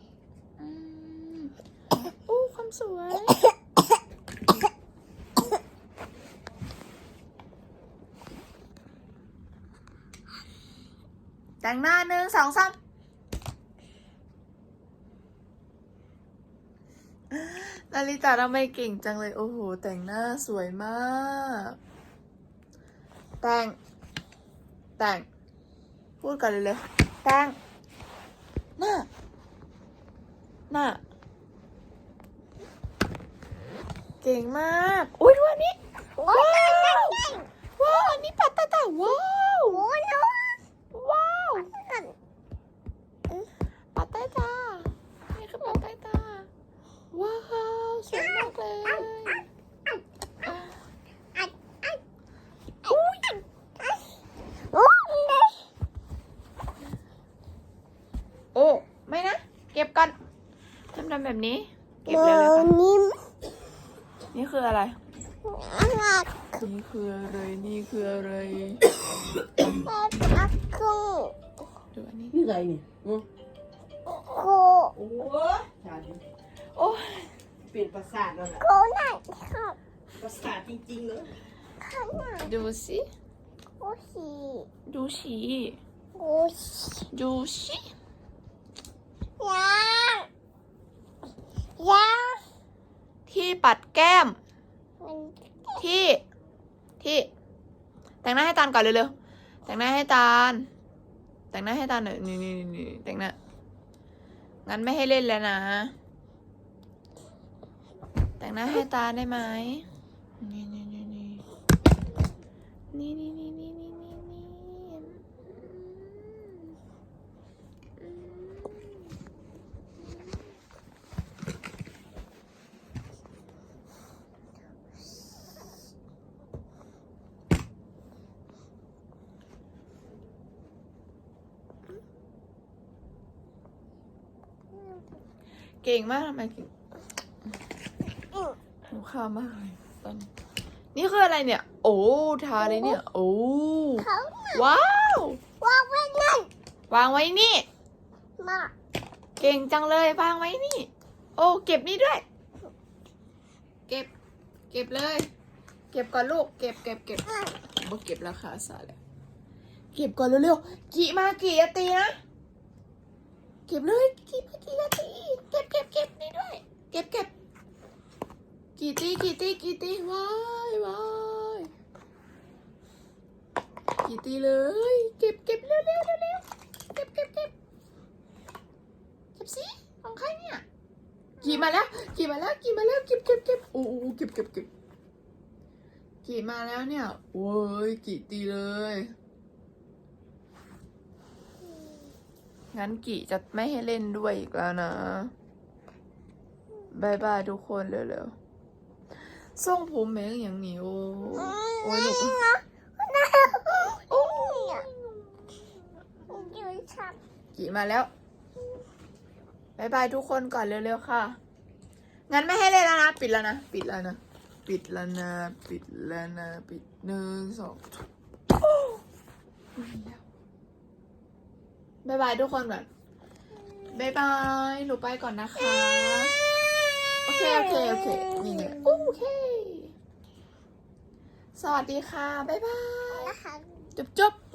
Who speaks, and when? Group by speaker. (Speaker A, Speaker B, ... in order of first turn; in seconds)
Speaker A: 0.6-3.4, 11.6-12.8, 17.3-21.8, 23.4-23.8, 25.0-25.3, 26.2-27.6, 28.8-29.1, 30.7-31.0, 34.2-37.2, 37.8-39.8, 40.9-41.7, 43.9-46.5, 47.1-49.5, 50.5-50.7, 52.9-53.3, 58.5-60.1, 60.9-62.7, 64.3-65.0, 66.5-68.8, 71.9-72.4, 76.7-77.3, 82.4-83.0, 84.9-85.8, 87.1-87.9, 93.3-94.4, 95.8-96.2, 97.0-97.3, 98.2-99.1, 99.7-100.7, 101.5-103.3, 104.7-105.9, 108.4-109.8, 110.4-111.4, 112.9-116.6, 118.0-119.0, 135.8-136.7, 138.9-140.3, 140.9-145.4, 146.9-147.7, 149.4-152.2, 154.7-155.3, 155.9-159.0, 159.9-162.2, 163.7-167.3, 168.8-171.7, 174.0-177.5, 179.3-180.6, 181.4-184.7, 186.2-189.1, 192.7-195.3, 196.9-198.3, 199.2-202.4, 203.8-205.6, 206.3-206.6, 207.5-208.1, 209.8-211.4, 212.3-217.8, 219.8-220.2, 222.0-222.9, 223.9-226.4, 227.2-229.9, 231.6-233.3, 233.9-234.4
Speaker B: 36.2-37.5, 39.7-40.6, 41.7-42.1, 51.3-52.0, 54.7-55.7, 62.1-63.2, 65.4-66.5, 69.6-71.3, 74.1-75.0, 78.6-79.8, 81.8-82.5, 83.8-84.7, 86.1-87.1, 89.4-90.3, 91.8-92.4, 95.0-95.8, 142.6-143.0, 144.0-144.7, 145.6-146.5, 148.4-148.7, 201.4-204.8, 206.3-207.2, 227.1-229.0, 233.1-233.7
Speaker C: 72.3-73.2, 75.0-76.2, 77.7-78.7, 80.2-81.4